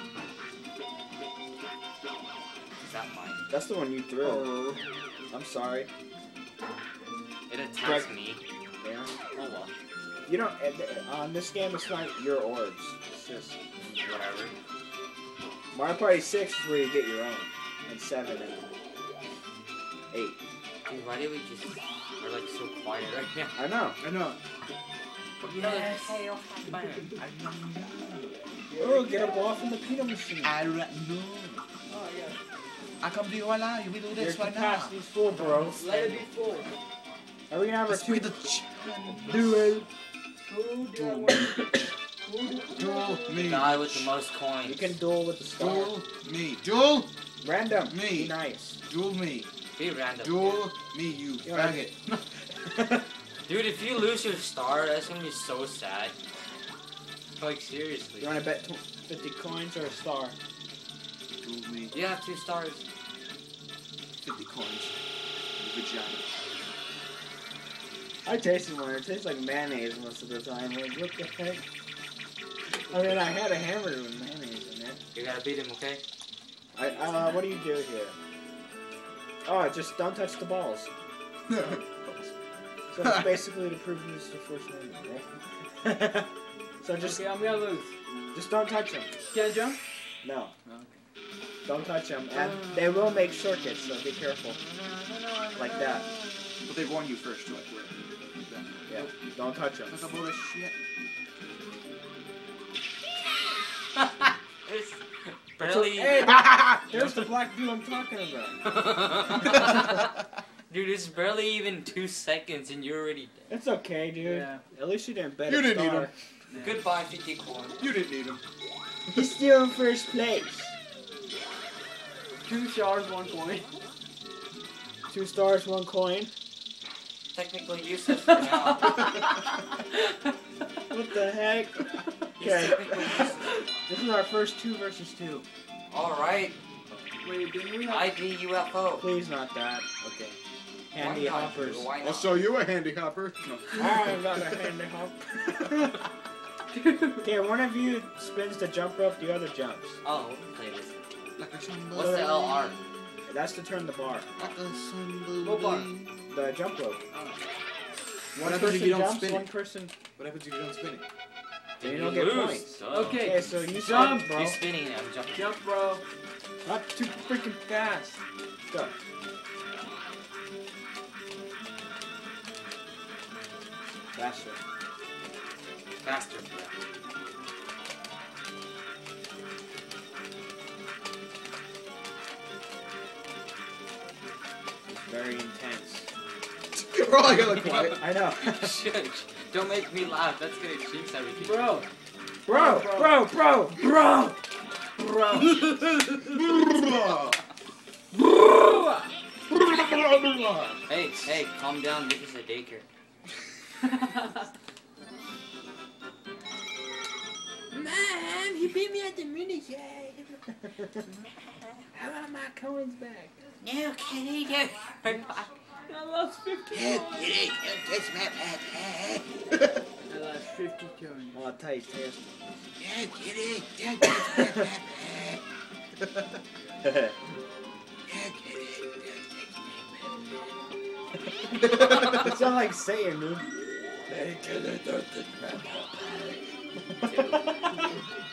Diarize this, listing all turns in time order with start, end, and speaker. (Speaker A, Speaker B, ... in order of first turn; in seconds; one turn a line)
Speaker A: 2.8-3.4
Speaker B: 3.5-4.5
Speaker C: 4.2-4.8
Speaker B: 5.3-5.9
Speaker A: 7.5-8.4
Speaker B: 7.8-8.1
Speaker B: 8.8-9.2
Speaker A: 9.3-9.7
Speaker B: 10.3-14.0
Speaker A: 14.0-14.5
Speaker B: 15.7-18.6
Speaker B: 20.1-20.4
Speaker A: 20.8-23.5
Speaker B: 23.5-24.0
Speaker C: 24.0-24.4
Speaker C: 25.4-26.2
Speaker A: 25.5-27.1
Speaker C: 27.2-28.4
Speaker D: 28.7-29.5
Speaker B: 28.8-30.6
Speaker C: 30.4-31.6
Speaker D: 31.9-32.4
Speaker C: 33.0-34.9
Speaker B: 34.1-35.8
Speaker A: 35.4-36.2
Speaker D: 35.8-36.7
Speaker B: 37.5-38.3
Speaker C: 37.9-39.8
Speaker B: 39.4-39.8
Speaker D: 40.5-43.5
Speaker C: 40.9-41.7
Speaker C: 42.7-44.1
Speaker A: 43.4-44.9
Speaker B: 44.6-46.0
Speaker C: 45.5-47.1
Speaker B: 47.4-48.8
Speaker C: 47.9-48.3
Speaker C: 48.9-49.5
Speaker A: 49.8-50.7
Speaker C: 50.2-52.0
Speaker B: 51.4-52.1
Speaker B: 52.6-53.0
Speaker A: 53.5-56.1
Speaker A: 57.4-58.4
Speaker B: 58.2-60.4
Speaker C: 61.4-61.9
Speaker A: 61.9-62.8
Speaker C: 64.2-65.0
Speaker C: 65.6-66.2
Speaker B: 68.2-71.6
Speaker B: 72.9-75.0
Speaker A: 75.1-76.0
Speaker B: 76.8-78.1
Speaker B: 79.4-80.9
Speaker C: 81.5-82.3
Speaker B: 82.9-85.2
Speaker C: 83.0-83.4
Speaker B: 85.8-86.3
Speaker B: 86.8-87.2
Speaker D: 87.0-87.9
Speaker B: 88.3-89.1
Speaker D: 89.3-89.8
Speaker B: 90.2-90.5
Speaker B: 91.6-94.6
Speaker A: 92.3-92.8
Speaker A: 94.6-96.6
Speaker B: 95.5-96.0
Speaker C: 96.7-99.0
Speaker B: 98.9-100.0
Speaker C: 99.9-100.8
Speaker A: 104.0-106.3
Speaker B: 105.6-108.7
Speaker C: 106.2-106.8
Speaker A: 108.7-110.1
Speaker A: 110.7-113.5
Speaker B: 113.5-116.1
Speaker D: 114.2-114.6
Speaker C: 115.5-116.1
Speaker D: 116.5-116.8
Speaker A: 116.5-117.8
Speaker C: 117.8-118.4
Speaker B: 119.1-120.7
Speaker D: 122.4-123.7
Speaker B: 125.1-126.3
Speaker A: 127.3-129.1
Speaker D: 128.3-130.3
Speaker B: 130.9-133.3
Speaker A: 132.3-133.7
Speaker B: 133.9-135.4
Speaker A: 135.9-136.6
Speaker D: 137.2-138.1
Speaker A: 137.8-139.1
Speaker B: 139.0-140.3
Speaker B: 140.9-141.9
Speaker A: 140.9-142.4
Speaker C: 142.0-144.6
Speaker B: 143.8-146.0
Speaker D: 146.7-147.2
Speaker B: 147.2-150.0
Speaker A: 150.0-151.0
Speaker C: 151.4-152.8
Speaker A: 151.9-152.8
Speaker B: 151.9-152.5
Speaker B: 153.3-154.5
Speaker C: 154.4-156.2
Speaker D: 155.4-155.9
Speaker B: 156.3-157.0
Speaker A: 157.1-157.4
Speaker B: 158.3-159.9
Speaker C: 158.4-159.5
Speaker C: 160.2-161.0
Speaker A: 161.8-165.5
Speaker B: 161.8-164.6
Speaker D: 162.9-164.3
Speaker D: 165.3-166.0
Speaker B: 166.6-168.9
Speaker B: 174.1-174.6
Speaker A: 176.0-176.7
Speaker B: 185.1-186.1
Speaker C: 186.7-188.0
Speaker B: 187.6-188.8
Speaker A: 187.7-191.8
Speaker D: 191.4-191.9
Speaker B: 192.4-194.3
Speaker D: 192.5-193.2
Speaker D: 195.0-196.2
Speaker C: 196.2-197.4
Speaker D: 198.1-199.1
Speaker C: 199.5-200.8
Speaker A: 200.9-202.8
Speaker B: 207.7-211.0
Speaker B: 211.9-213.4
Speaker A: 213.6-215.5
Speaker D: 215.8-217.3
Speaker C: 216.7-219.6
Speaker D: 220.1-221.4
Speaker B: 221.3-222.2
Speaker C: 222.8-225.4
Speaker B: 226.8-227.1
Speaker C: 228.1-229.1
Speaker C: 231.8-232.2
Speaker B: 231.9-233.5
Speaker B: 234.1-236.4
Speaker B: 237.0-237.8
Speaker A: 237.0-237.8